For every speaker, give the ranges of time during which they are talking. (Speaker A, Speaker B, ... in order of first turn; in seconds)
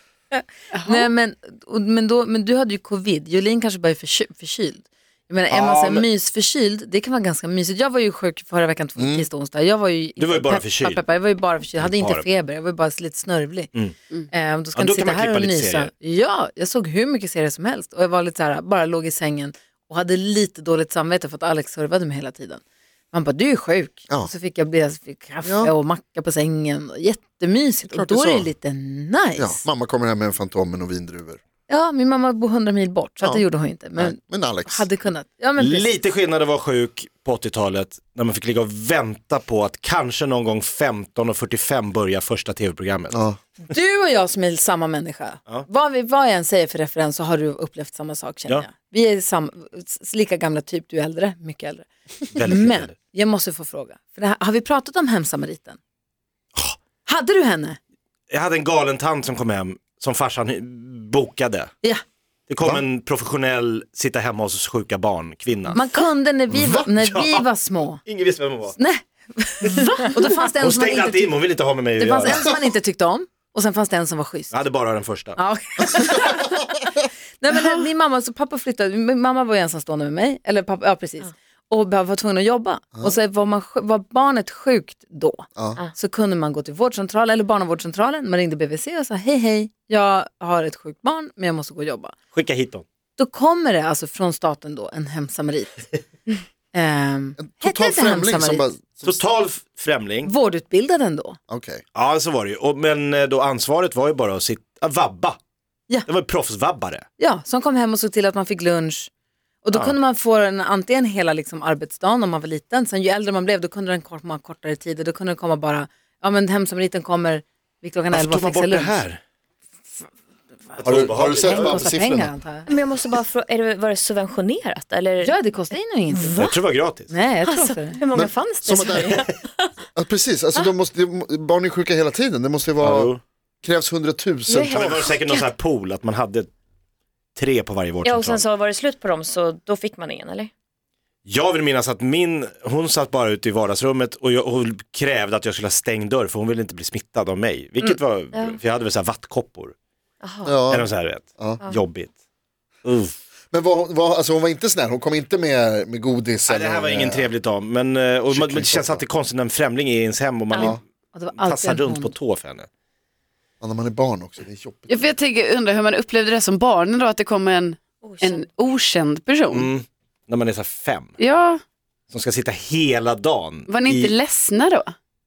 Speaker A: 0.3-13.7, 14.3-29.6, 31.7-35.9, 43.6-55.8, 57.0-57.8, 65.7-68.0, 68.8-71.4, 72.0-74.5, 75.3-76.7, 77.4-92.1, 93.2-95.9, 96.7-98.7, 100.2-101.4, 107.2-109.1, 109.6-119.0, 120.7-122.7, 125.2-126.4, 127.1-128.0, 160.6-162.1
Speaker B: 0.7-1.1, 164.9-169.7, 171.2-171.6, 173.7-174.9
Speaker C: 5.5-6.0, 10.2-11.0, 11.8-12.2, 14.7-15.9, 35.6-43.2, 52.3-52.9, 58.3-61.7, 62.5-65.8, 66.8-67.5, 68.0-68.8, 70.4-72.4, 74.5-75.4, 92.3-92.8, 99.0-100.3, 101.9-105.4, 106.0-107.0, 118.1-119.2, 120.8-121.8, 126.3-127.1, 132.8-133.2, 134.7-136.5, 137.3-138.4, 141.2-149.7, 150.7-152.1, 152.8-153.2, 156.5-160.8, 161.3-162.7, 169.5-171.2, 172.1-174.1
Speaker D: 9.0-9.2, 25.4-25.7, 27.9-28.5, 29.4-31.4, 34.0-34.9, 43.1-43.4, 66.5-66.8, 85.5-85.8, 97.4-99.2, 101.5-101.8, 120.8-122.3, 128.1-129.2, 129.9-135.1, 150.4-151.6, 153.5-157.3, 158.3-159.0, 163.6-165.1
Speaker E: 122.7-125.4, 126.1-126.6, 127.4-129.7, 134.5-135.5, 138.0-140.5, 148.3-148.6, 150.2-150.6, 168.0-168.4